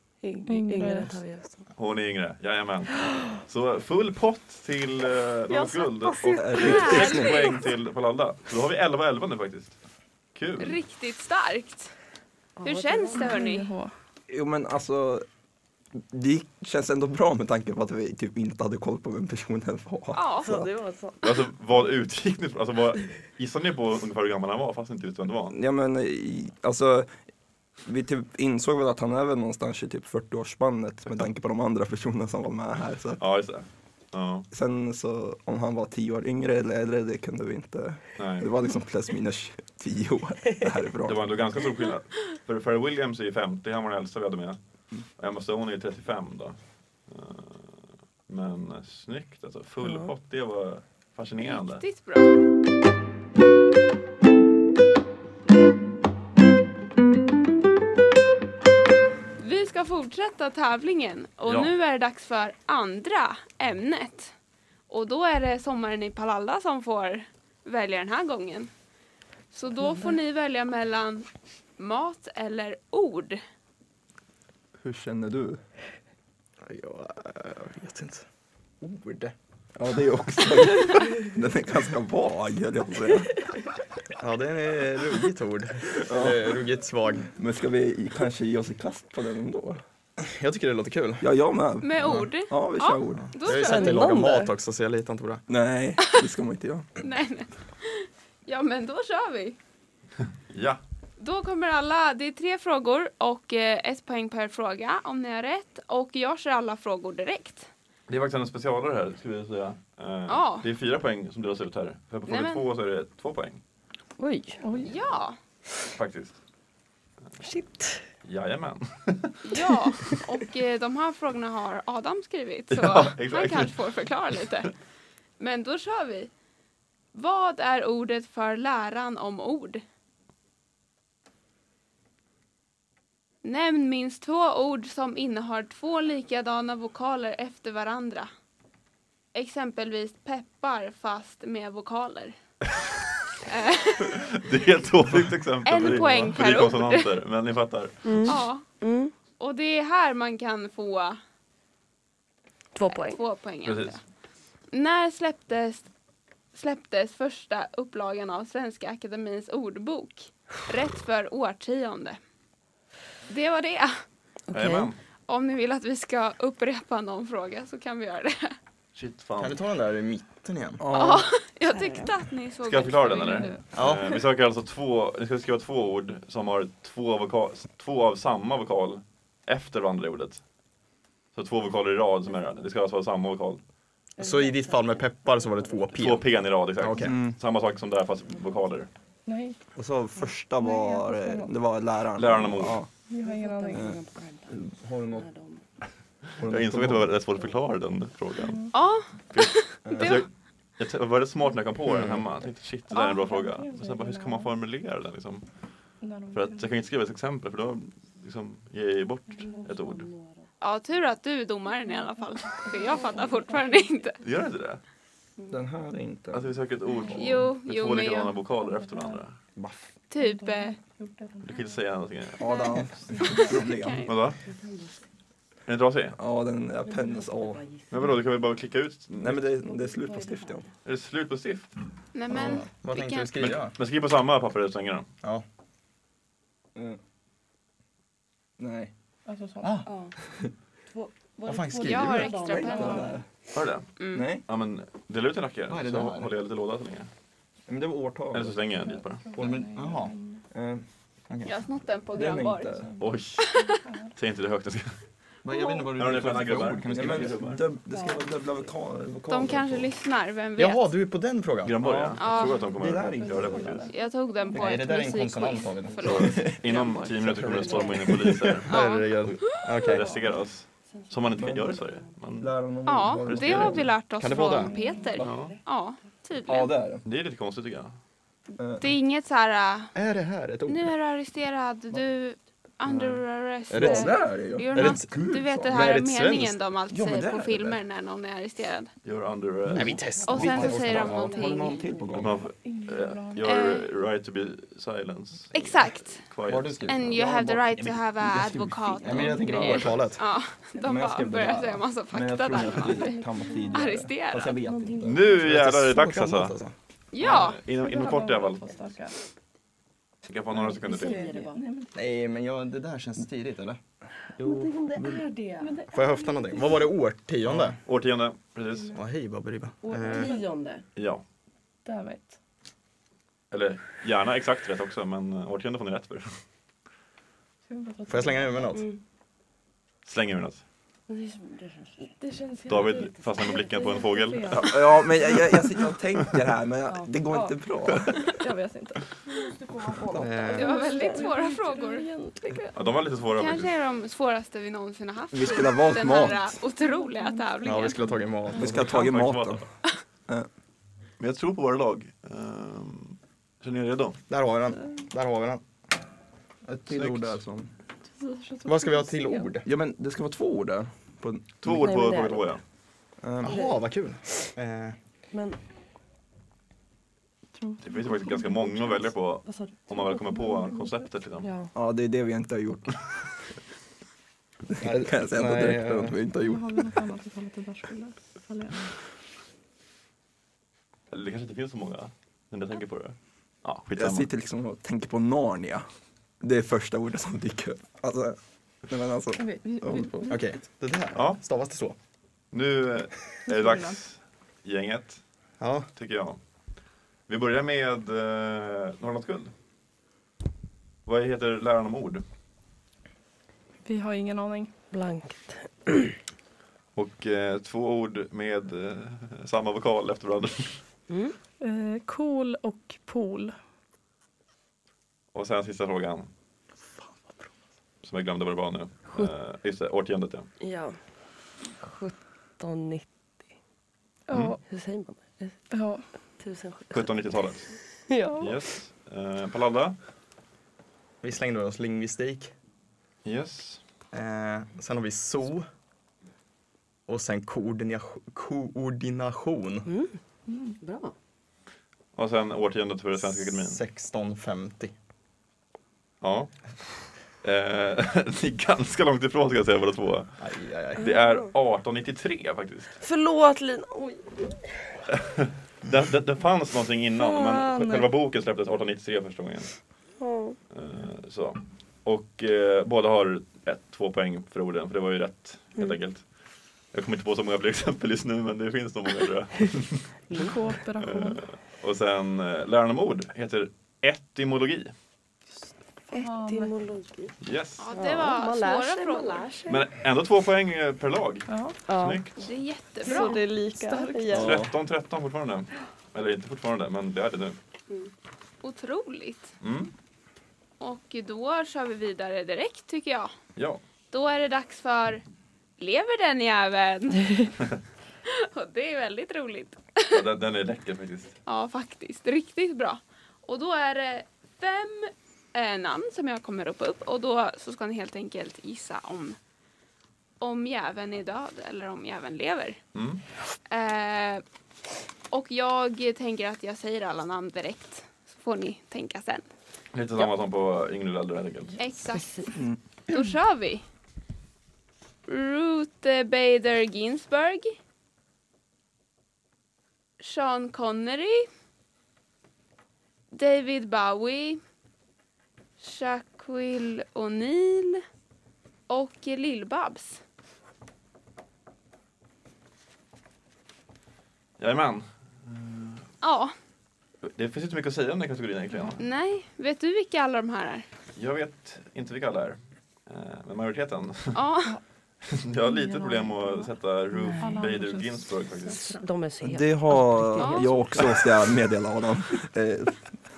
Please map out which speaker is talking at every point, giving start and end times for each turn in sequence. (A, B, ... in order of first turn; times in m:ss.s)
0:00.2-0:01.6 A
0:00.4-0:01.2 B
0:01.8-0:09.8 C
0:05.5-0:07.4 A
0:06.3-0:07.5 D
0:06.6-0:07.6 E
0:10.3-0:10.8 C
0:10.6-0:11.9 E
0:12.6-0:13.4 A
0:12.6-0:13.7 E
0:13.1-0:13.9 B
0:14.3-0:15.2 D
0:15.9-0:20.6 D
0:20.1-0:20.6 E
0:20.4-0:21.4 A
0:21.2-0:25.6 C
0:25.5-0:27.1 D
0:27.8-0:33.2 D
0:33.2-0:34.4 C
0:34.5-0:41.3 D
0:38.2-0:38.5 C
0:41.0-0:44.6 C
0:45.2-0:51.8 C
0:49.8-0:50.1 A
0:51.4-0:52.4 E
0:59.4-1:04.3 E
1:01.4-1:01.7 C
1:04.9-1:08.7 E
1:09.5-1:11.3 E
1:09.8-1:10.1 A
1:11.8-1:13.4 E
1:14.8-1:15.6 D
1:16.6-1:18.2 F
1:18.8-1:19.3 F
1:19.7-1:23.4 D
1:24.2-1:27.3 F
1:26.0-1:26.5 D
1:27.3-1:29.8 D
1:30.2-1:31.2 F
1:31.2-1:33.3 D
1:31.8-1:34.1 E
1:32.0-1:32.3 F
1:33.2-1:35.4 F
1:33.5-1:34.5 A
1:35.5-1:36.9 D
1:37.0-1:39.6 E
1:40.5-1:40.8 C
1:41.2-1:47.7 E
1:48.1-1:53.6 C
1:50.3-1:50.7 E
1:52.3-1:52.6 E
1:54.2-1:54.6 A
1:54.6-1:54.9 B
1:54.8-1:55.4 E
1:56.0-1:56.4 C
1:57.4-1:58.0 A
1:58.2-2:00.2 C
1:59.4-2:04.7 E
2:02.7-2:04.6 C
2:05.4-2:06.3 E
2:07.1-2:09.8 E
2:13.4-2:18.3 E
2:19.3-2:22.3 E
2:23.4-2:24.2 E
2:24.1-2:28.4 C
2:25.6-2:27.1 E
2:28.0-2:29.1 A
2:28.2-2:28.6 E
2:29.4-2:31.2 E
2:32.7-2:33.2 A
2:32.9-2:34.0 E
2:33.6-2:34.0 C
2:34.7-2:35.9 E
2:36.5-2:42.2 E
2:43.3-2:44.0 E
2:44.5-2:44.9 A
2:44.5-2:45.0 C
2:45.3-2:48.6 E
2:48.9-2:49.6 C
2:49.4-2:50.8 F
2:50.8-2:51.3 D
2:50.9-2:53.6 E
2:51.7-2:52.2 A
2:52.7-3:00.4 C
2:53.2-2:53.6 B
2:53.7-2:54.2 F
3:01.3-3:03.6 C
3:04.2-3:06.0 A
3:04.2-3:07.2 F
3:06.0-3:08.9 C
3:07.0-3:07.4 D
3:09.2-3:09.6 B
3:09.7-3:12.9 D
3:10.6-3:11.5 B
3:12.1-3:12.8 C
3:13.1-3:14.0 B
3:13.2-3:14.6 A
3:14.5-3:15.3 D
3:15.1-3:15.6 A
3:16.4-3:17.1 D
3:16.4-3:18.6 C
3:18.4-3:18.7 B
3:18.7-3:20.2 E
3:19.3-3:25.4 C
3:19.8-3:20.2 D
3:21.9-3:22.2 F
3:22.9-3:24.5 B
3:26.0-3:26.7 B
3:26.3-3:30.1 C
3:29.4-3:30.3 A
3:30.6-3:34.2 E
3:31.9-3:33.8 B
3:34.2-3:34.8 C
3:35.5-3:36.6 D
3:36.3-3:39.3 C
3:37.1-3:38.4 E
3:38.6-3:39.2 B
3:39.6-3:39.8 D
3:40.1-3:40.8 E
3:40.2-3:41.7 B
3:41.4-3:42.4 C
3:42.4-3:44.1 D
3:43.1-3:43.7 B
3:43.2-3:44.1 E
3:44.0-3:44.4 C
3:44.4-3:45.0 A
3:45.7-3:46.2 C
3:46.2-3:47.6 D
3:46.8-3:48.1 A
3:47.9-3:49.5 C
3:49.2-3:50.6 D
3:49.6-3:50.6 A
3:50.8-3:51.7 C
3:52.1-3:53.5 E
3:52.3-3:53.7 F
3:53.4-3:55.1 C
3:56.7-3:57.0 D
3:58.6-3:58.9 D
3:59.2-3:59.7 B
3:59.6-3:59.9 F
3:59.8-4:00.1 A
4:00.9-4:03.2 A
4:01.4-4:02.4 F
4:01.8-4:03.1 E
4:02.5-4:03.1 B
4:02.5-4:03.2 D
4:03.5-4:03.9 C
4:04.0-4:04.3 E
4:04.1-4:04.4 D
4:04.4-4:07.1 C
4:05.7-4:06.3 F
4:07.7-4:08.6 D
4:08.3-4:09.4 C
4:08.8-4:10.4 B
4:09.4-4:10.1 F
4:10.5-4:10.8 D
4:11.3-4:11.5 F
4:11.4-4:12.8 E
4:12.1-4:12.9 D
4:13.0-4:13.4 C
4:13.4-4:13.8 E
4:14.1-4:14.9 C
4:15.4-4:17.5 F
4:15.9-4:17.6 C
4:16.9-4:19.9 D
4:17.9-4:18.2 A
4:19.3-4:20.9 E
4:20.6-4:21.8 F
4:21.6-4:23.9 C
4:21.8-4:23.9 D
4:22.2-4:22.7 E
4:23.6-4:23.9 B
4:23.9-4:26.6 E
4:24.5-4:26.6 F
4:26.0-4:28.7 C
4:26.7-4:27.1 B
4:27.2-4:30.1 F
4:27.3-4:27.9 D
4:27.6-4:28.0 A
4:28.7-4:29.7 E
4:29.8-4:32.5 C
4:31.0-4:32.1 A
4:31.3-4:31.8 D
4:32.4-4:33.8 D
4:32.8-4:36.7 E
4:33.2-4:33.8 C
4:34.2-4:34.8 F
4:34.6-4:35.6 A
4:34.7-4:35.1 B
4:35.2-4:35.6 C
4:36.4-4:37.0 D
4:37.0-4:37.9 C
4:38.6-4:38.9 D
4:38.8-4:39.9 E
4:39.9-4:40.9 F
4:40.7-4:48.9 E
4:42.8-4:46.6 F
4:43.7-4:46.0 D
4:46.9-4:47.8 D
4:49.0-4:50.1 C
4:49.7-4:51.3 F
4:50.1-4:52.2 A
4:50.2-4:51.8 E
4:50.3-4:52.4 D
4:52.1-4:56.8 C
4:52.5-4:53.6 B
4:53.4-4:53.9 E
4:55.5-4:56.2 E
4:56.4-5:00.2 F
4:56.8-5:04.6 E
4:58.4-4:59.8 D
4:59.2-5:00.1 C
5:00.8-5:05.2 D
5:03.0-5:03.8 B
5:04.6-5:05.2 A
5:05.0-5:06.7 F
5:05.0-5:06.6 C
5:07.1-5:07.6 E
5:07.2-5:08.6 C
5:07.6-5:09.2 B
5:10.2-5:11.3 C
5:10.5-5:12.0 B
5:10.7-5:11.6 A
5:11.9-5:13.8 F
5:14.4-5:15.2 D
5:14.4-5:15.7 A
5:15.6-5:16.8 B
5:15.9-5:17.8 F
5:17.5-5:19.0 C
5:18.9-5:20.3 F
5:19.8-5:20.8 A
5:20.0-5:20.4 B
5:21.0-5:21.2 C
5:21.8-5:22.4 B
5:23.5-5:26.3 C
5:27.7-5:28.8 B
5:28.1-5:28.8 F
5:28.7-5:29.0 A
5:30.0-5:30.6 C
5:31.1-5:32.1 A
5:32.0-5:35.0 B
5:32.7-5:34.9 C
5:32.8-5:34.3 A
5:34.5-5:38.2 D
5:37.3-5:37.6 B
5:38.4-5:42.8 B
5:40.2-5:40.8 F
5:40.4-5:41.3 A
5:40.5-5:42.1 E
5:42.7-5:43.7 C
5:43.3-5:48.0 E
5:45.3-5:46.6 D
5:46.1-5:48.6 B
5:47.6-5:48.9 F
5:48.5-5:49.6 D
5:48.6-5:49.6 C
5:51.2-5:54.2 C
5:54.3-5:55.6 F
5:56.6-5:57.7 D
5:56.9-5:57.3 C
5:58.1-5:59.5 B
5:58.6-5:59.7 F
5:59.6-6:01.5 D
6:01.6-6:02.6 C
6:01.6-6:02.6 A
6:03.2-6:03.6 D
6:03.4-6:05.0 F
6:03.5-6:03.8 A
6:05.3-6:05.6 A
6:07.5-6:09.1 B
6:07.8-6:11.5 C
6:09.4-6:10.7 A
6:10.4-6:10.7 B
6:11.4-6:11.7 A
6:11.7-6:13.0 D
6:14.7-6:17.0 D
6:14.8-6:16.2 F
6:16.4-6:18.9 B
6:21.1-6:24.3 C
6:24.0-6:25.8 D
6:26.4-6:30.2 D
6:29.3-6:30.4 B
6:30.0-6:32.0 F
6:31.1-6:31.4 C
6:32.5-6:35.2 C
6:33.5-6:34.0 B
6:35.6-6:35.9 F
6:36.0-6:36.4 C
6:37.3-6:39.5 C
6:41.0-6:42.2 C
6:43.8-6:44.7 B
6:44.9-6:46.2 A
6:47.0-6:50.8 C
6:51.1-6:51.4 A
6:51.6-6:53.5 B
6:55.3-6:56.3 C
6:58.0-7:00.5 C
7:00.6-7:01.0 A
7:01.8-7:03.1 A
7:04.3-7:04.6 B
7:04.3-7:04.6 C
7:04.6-7:05.6 A
7:05.7-7:06.0 B
7:06.4-7:07.2 A
7:06.9-7:07.7 C
7:08.1-7:08.6 A
7:08.4-7:10.0 C
7:11.2-7:12.5 F
7:13.2-7:13.8 C
7:14.1-7:15.6 F
7:17.1-7:19.9 F
7:19.8-7:20.2 A
7:20.5-7:20.7 B
7:20.8-7:21.1 A
7:22.2-7:23.8 C
7:23.2-7:24.9 F
7:26.2-7:26.6 C
7:27.4-7:30.4 C
7:30.4-7:31.1 F
7:30.9-7:33.0 C
7:31.0-7:31.5 A
7:33.0-7:35.0 A
7:35.3-7:39.7 C
7:37.2-7:38.1 B
7:40.2-7:40.6 A
7:40.7-7:46.2 C
7:46.9-7:50.2 C
7:50.3-7:51.4 B
7:51.0-7:54.9 C
7:56.1-7:57.3 A
7:56.1-7:56.7 B
7:57.4-7:57.9 C
7:57.8-7:59.5 E
7:57.9-7:59.8 A
7:59.7-8:02.3 C
8:01.5-8:01.8 B
8:01.9-8:02.2 A
8:02.4-8:03.4 E
8:03.0-8:04.6 A
8:03.0-8:04.5 B
8:04.3-8:07.6 C
8:04.4-8:04.6 F
8:08.6-8:09.5 E
8:09.6-8:09.9 C
8:10.8-8:13.3 E
8:13.6-8:13.8 C
8:14.1-8:15.2 E
8:15.8-8:17.5 E
8:18.3-8:20.2 E
8:20.1-8:21.4 C
8:21.4-8:29.4 E
8:30.4-8:32.8 E
8:32.9-8:33.2 C
8:33.7-8:34.4 E
8:35.3-8:39.4 E
8:39.9-8:41.8 C
8:41.8-8:43.8 E
8:42.1-8:42.4 A
8:45.3-8:47.8 E
8:50.2-8:51.4 E
8:53.3-8:54.6 E
8:55.8-8:58.0 E
8:58.9-9:00.2 E
9:04.6-9:06.1 C
9:06.2-9:06.5 E
9:07.2-9:09.0 C
9:09.0-9:10.8 E
9:11.2-9:14.4 C
9:14.3-9:14.8 E
9:15.2-9:19.0 C
9:15.6-9:16.7 B
9:17.1-9:17.6 A
9:17.3-9:19.0 B
9:18.7-9:21.0 A
9:19.4-9:23.0 D
9:20.4-9:20.8 E